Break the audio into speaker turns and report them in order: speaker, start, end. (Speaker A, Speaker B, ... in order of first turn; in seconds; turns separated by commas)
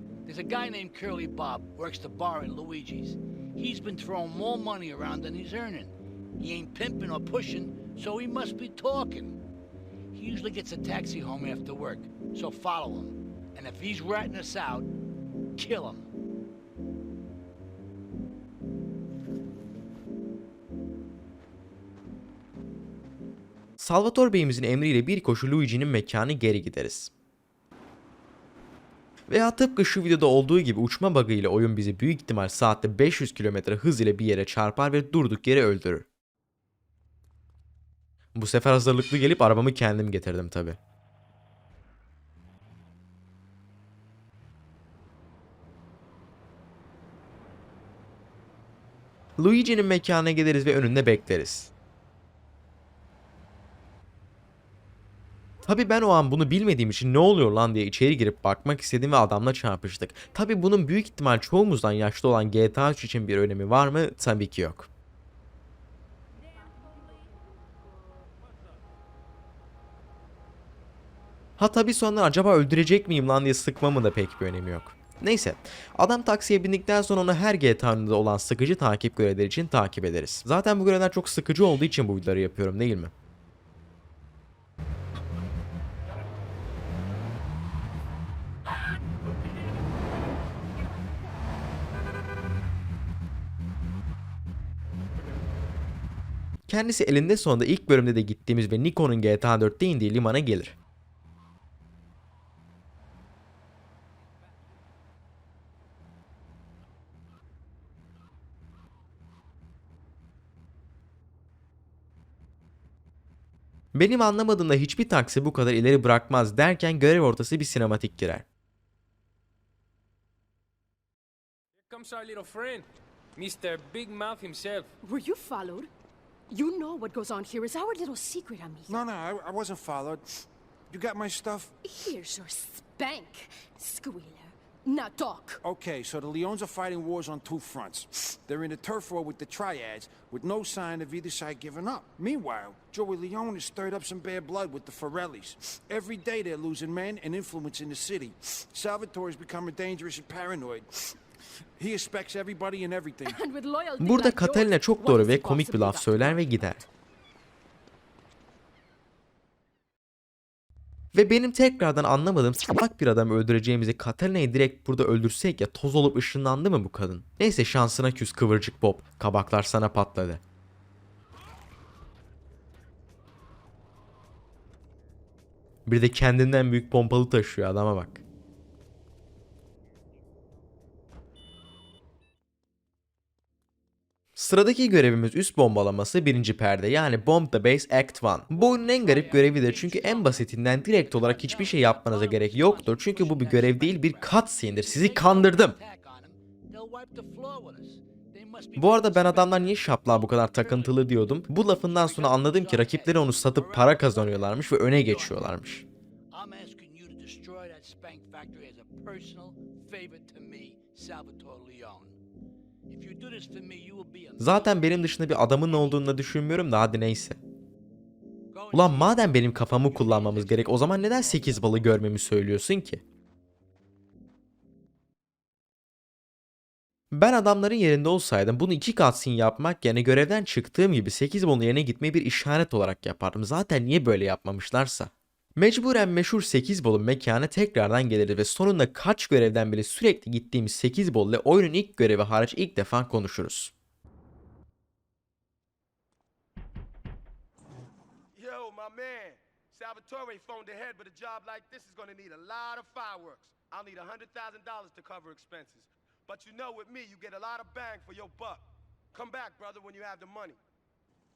Speaker A: 0.2-9.4, Speaker A: 10.1-14.9, Speaker A: 15.6-16.1, Speaker B: 23.8-27.1, Speaker B: 29.3-36.0, Speaker B: 38.3-40.8, Speaker B: 49.4-51.7, Speaker B: 55.6-64.9, Speaker B: 71.6-83.1, Speaker B: 96.7-100.7, Speaker B: 113.9-118.4, Speaker C: 121.8-124.9, Speaker D: 125.0-125.9, Speaker D: 126.5-129.0, Speaker E: 128.9-131.8, Speaker D: 131.8-135.6, Speaker E: 135.6-151.2, Speaker E: 151.8-153.4, Speaker D: 153.2-156.6, Speaker B: 154.0-156.8, Speaker B: 161.1-170.4, Speaker B: 175.9-178.2, Speaker B: 184.3-195.8, Speaker A: 188.6-205.5, Speaker B: 198.8-205.8, Speaker A: 206.3-212.2, Speaker A: 212.9-216.1, Speaker B: 214.4-217.4, Speaker A: 218.5-221.8, Speaker B: 218.7-223.0, Speaker B: 227.1-243.7, Speaker F: 248.3-260.6